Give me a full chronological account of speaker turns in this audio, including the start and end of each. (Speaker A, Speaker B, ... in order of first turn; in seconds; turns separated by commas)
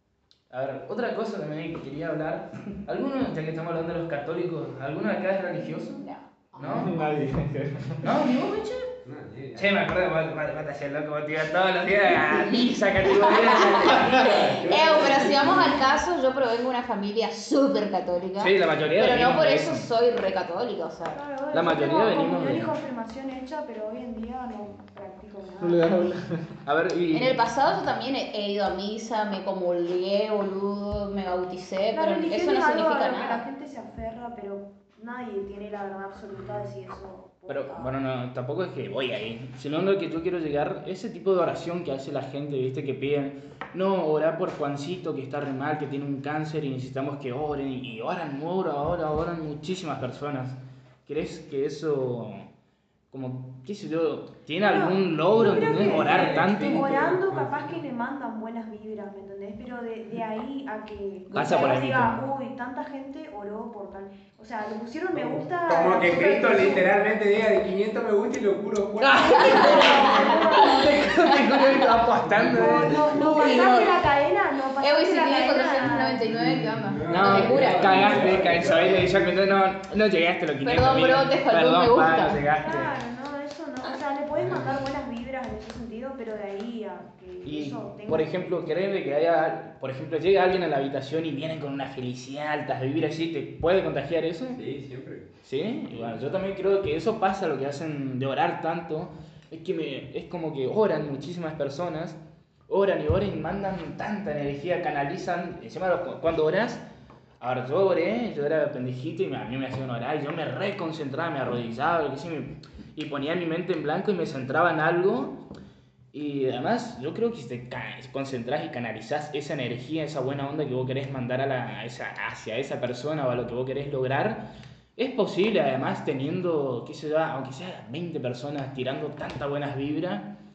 Speaker A: 0.5-6.0, Speaker B: 5.7-7.2, Speaker A: 6.6-6.9, Speaker C: 6.6-8.0, Speaker A: 8.0-8.9, Speaker D: 9.0-9.8, Speaker A: 9.6-14.4, Speaker B: 13.1-21.2, Speaker D: 13.8-15.8, Speaker A: 18.4-19.9, Speaker E: 21.1-26.0, Speaker A: 21.5-22.7, Speaker C: 25.6-26.5, Speaker A: 26.6-27.4, Speaker B: 27.1-33.4, Speaker E: 31.9-37.9, Speaker A: 37.5-52.5, Speaker A: 53.1-56.8, Speaker E: 54.6-66.9, Speaker D: 55.3-57.8, Speaker A: 61.3-62.2, Speaker B: 61.3-61.8, Speaker D: 65.1-70.2, Speaker A: 69.0-73.7, Speaker E: 69.2-71.3, Speaker B: 69.5-71.7, Speaker D: 72.3-73.2, Speaker E: 72.5-76.2, Speaker B: 73.1-74.0, Speaker B: 74.8-78.6, Speaker D: 76.2-79.4, Speaker A: 77.1-83.0, Speaker B: 80.6-82.4, Speaker E: 82.5-88.5, Speaker D: 84.3-84.8, Speaker A: 87.4-94.6, Speaker D: 94.5-95.3, Speaker A: 95.4-106.8, Speaker D: 95.9-96.2, Speaker A: 107.4-115.4, Speaker A: 116.1-130.3